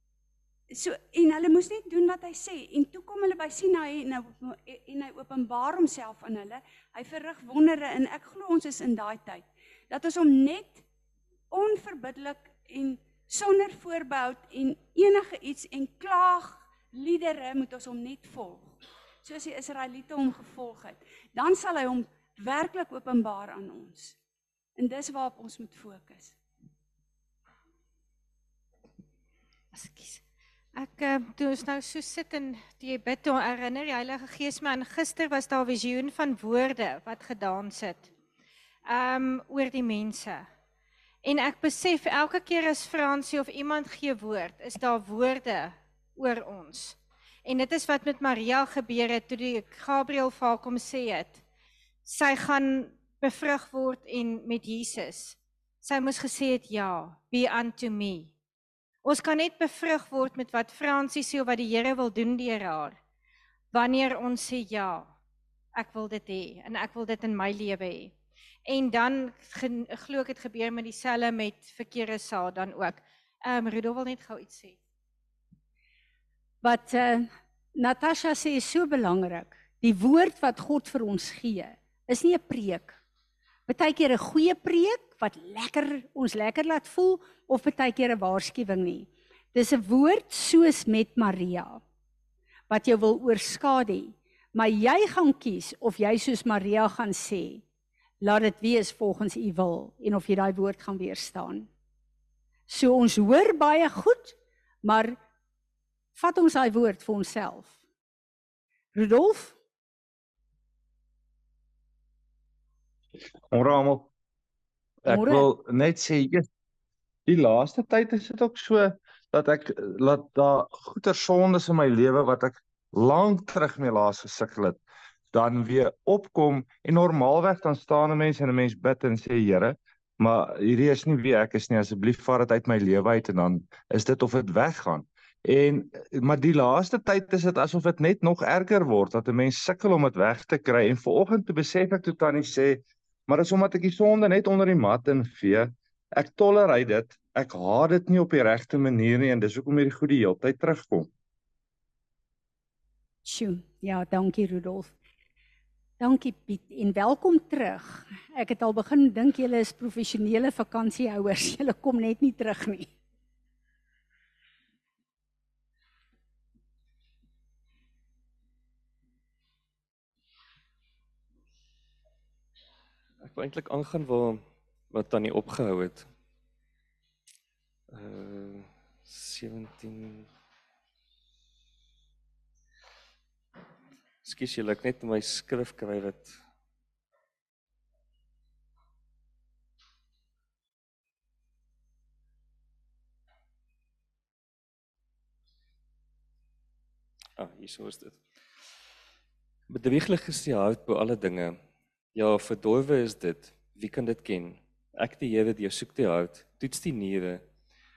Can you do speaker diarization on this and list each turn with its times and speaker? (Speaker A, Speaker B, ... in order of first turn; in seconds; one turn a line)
Speaker A: 0.7-10.8
Speaker A: 11.5-24.2
Speaker A: 24.8-26.4
Speaker B: 29.7-30.2
Speaker B: 30.8-38.1
Speaker B: 38.9-40.5
Speaker B: 41.2-51.4
Speaker B: 52.1-58.3
Speaker B: 59.0-63.0
Speaker B: 63.7-65.1
Speaker B: 65.8-68.1
Speaker B: 68.7-74.8
Speaker C: 76.6-83.0
Speaker C: 83.7-91.8
Speaker C: 92.7-97.6
Speaker C: 98.2-101.7
Speaker C: 102.7-105.2
Speaker C: 106.2-107.8
Speaker C: 109.0-109.6
Speaker D: 113.5-114.1
Speaker D: 115.0-116.5
Speaker C: 115.1-115.5
Speaker D: 117.3-151.1
Speaker C: 153.2-154.9
Speaker C: 156.0-162.9
Speaker E: 173.2-176.1
Speaker E: 177.9-180.3
Speaker E: 184.2-186.4
Speaker E: 197.4-198.2
Speaker E: 199.7-201.6
Speaker E: 202.2-207.4